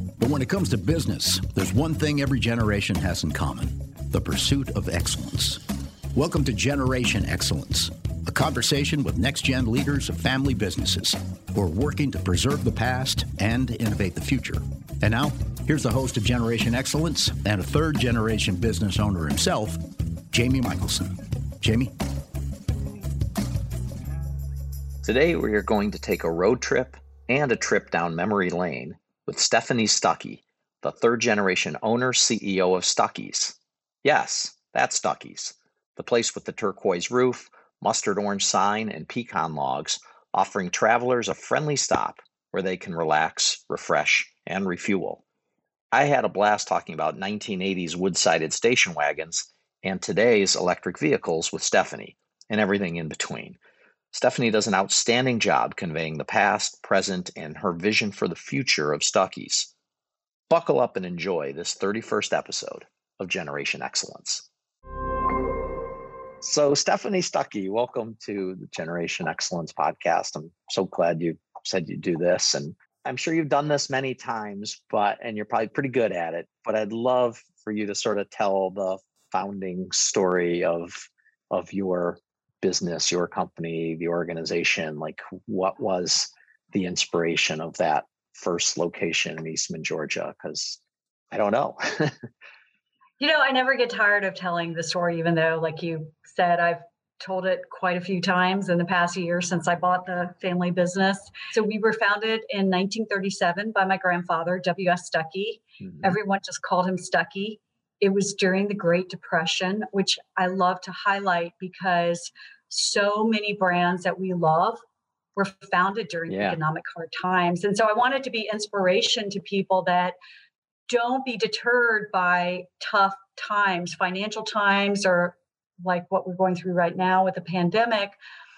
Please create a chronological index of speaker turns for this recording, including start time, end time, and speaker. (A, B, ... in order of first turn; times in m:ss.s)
0:00.2-0:05.6 A
0:06.1-0:21.9 A
0:25.0-0:45.2 B
0:45.9-0:53.6 B
0:54.1-0:59.7 B
1:00.5-1:04.5 B
1:06.4-1:30.8 B
1:31.3-1:32.2 B
1:33.2-1:54.8 C
1:45.8-1:46.2 B
1:55.4-2:00.2 C
1:56.3-1:56.6 B
2:00.9-2:08.2 C